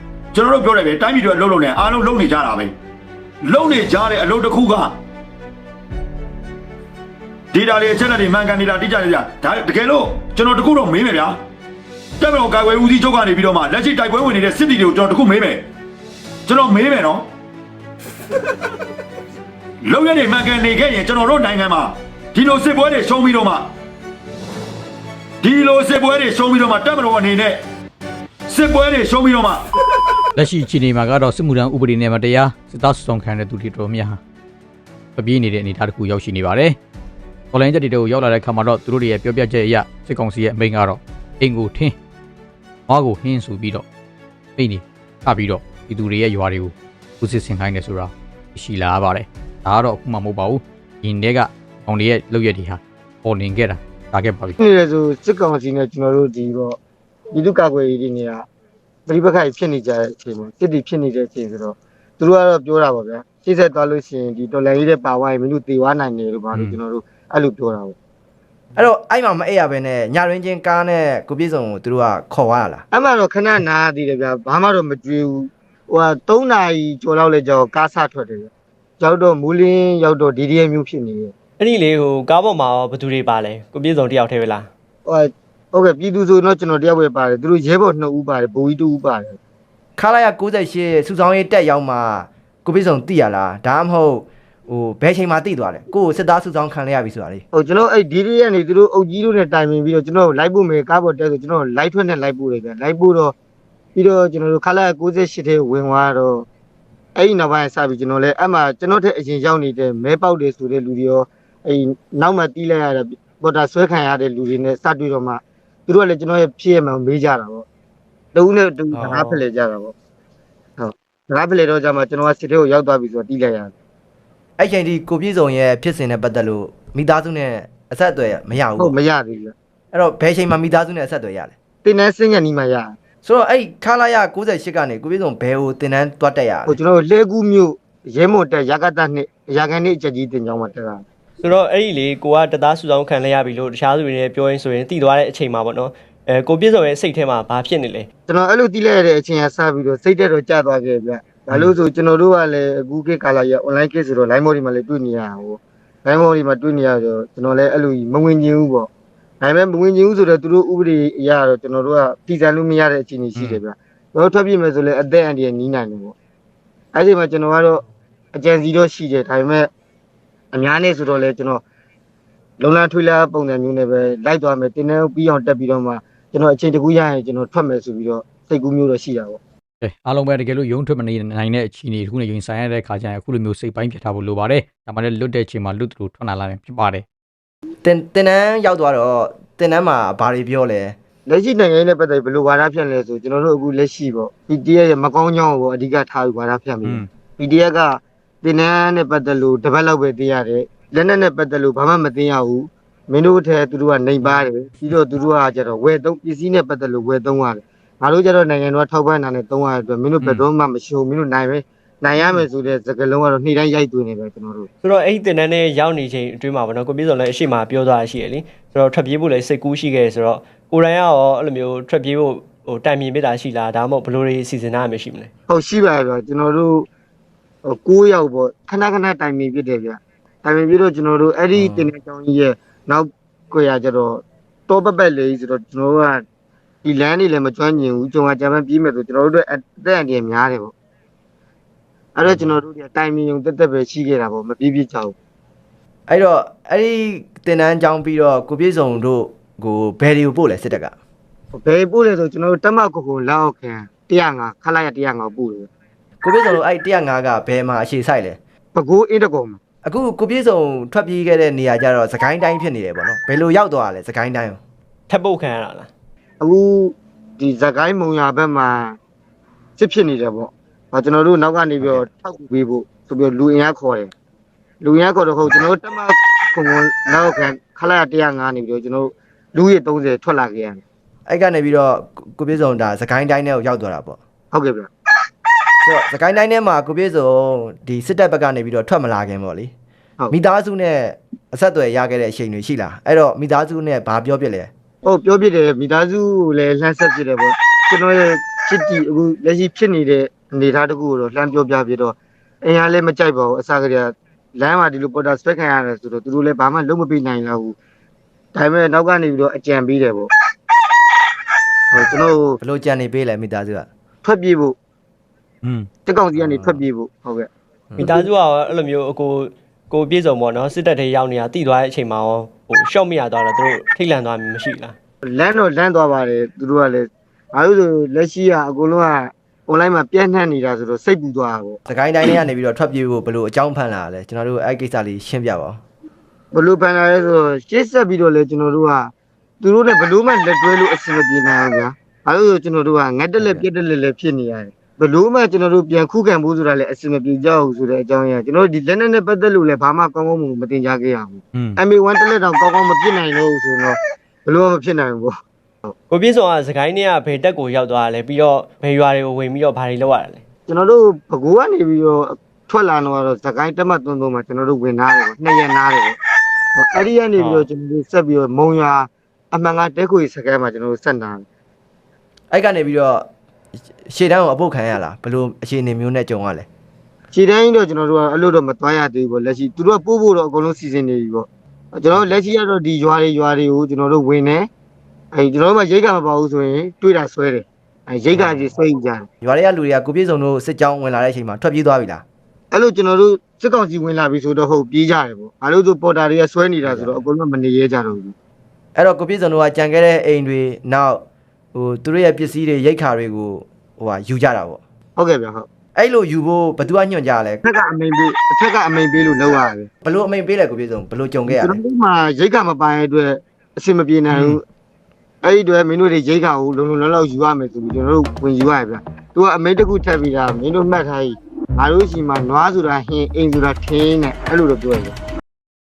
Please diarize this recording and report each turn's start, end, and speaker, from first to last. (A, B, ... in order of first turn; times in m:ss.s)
0:00.3-0:02.7 A
0:03.4-0:05.0 A
0:07.5-0:11.4 A
0:12.2-0:15.7 A
0:16.4-0:17.3 A
0:19.8-0:23.7 A
0:25.4-0:27.6 A
0:28.5-0:29.7 A
0:30.4-0:34.2 B
0:35.2-0:36.8 B
0:37.5-0:41.9 B
0:42.9-0:43.8 B
0:44.6-0:54.6 B
0:54.6-0:56.8 C
0:57.3-0:58.4 C
0:59.1-1:08.0 C
1:08.8-1:12.8 D
1:12.9-1:21.3 C
1:21.6-1:24.7 E
1:25.0-1:29.4 C
1:30.0-1:37.4 D
1:37.5-1:43.3 C
1:43.9-1:46.4 C
1:47.2-1:57.6 C
1:58.3-1:59.9 C
1:58.9-1:59.4 D
2:00.8-2:03.7 C
2:04.6-2:09.0 D
2:08.8-2:09.5 C
2:09.9-2:11.5 D
2:11.8-2:12.9 C
2:13.2-2:16.8 D
2:16.7-2:21.0 C
2:21.4-2:28.1 E
2:28.3-2:38.9 C
2:39.4-2:46.1 C
2:46.9-2:47.8 C
2:48.3-2:49.7 C
2:50.5-2:51.6 C
2:52.6-2:59.4 C
2:59.8-3:07.0 B
3:07.8-3:10.9 D
3:11.2-3:34.7 C
3:34.8-3:45.3 E
3:45.5-3:46.9 C
3:47.6-3:56.2 C
3:51.5-3:51.8 D
3:56.8-4:00.7 C
4:02.1-4:05.1 C
4:06.1-4:10.9 D
4:11.5-4:15.7 C
4:16.2-4:18.4 D
4:18.7-4:19.6 C
4:19.8-4:24.6 D
4:25.1-4:25.9 E
4:26.4-4:29.0 C
4:29.8-4:34.1 C
4:31.8-4:32.0 D
4:34.8-4:40.8 C
4:41.3-4:44.2 D
4:44.5-4:44.9 C
4:45.8-4:49.7 D
4:50.3-4:54.7 D
4:55.0-5:07.7 C
5:08.5-5:10.3 C
5:11.9-5:12.6 C
5:12.6-5:13.9 D
5:14.2-5:14.7 C
5:15.6-5:15.9 B
5:16.0-5:17.5 C
5:16.3-5:16.8 D
5:17.9-5:18.2 D
5:18.0-5:25.0 E
5:25.2-5:31.8 C
5:31.9-5:35.8 D
5:36.5-5:55.3 C
5:43.4-5:43.6 D
5:51.5-5:51.8 B
5:56.1-6:00.4 E
6:00.7-6:06.2 C
6:06.7-6:11.4 C
6:07.4-6:07.6 E
6:12.5-6:13.3 D
6:14.0-6:16.7 D
6:17.3-6:24.7 C
6:25.3-6:29.3 C
6:28.3-6:28.7 D
6:29.4-6:32.2 D
6:32.7-6:38.3 C
6:36.8-6:37.2 D
6:39.0-6:44.8 D
6:45.2-6:45.7 C
6:45.9-6:47.6 D
6:47.6-6:49.9 C
6:50.0-6:51.8 D
6:51.5-6:54.6 C
6:54.3-6:54.6 B
6:55.4-7:05.1 C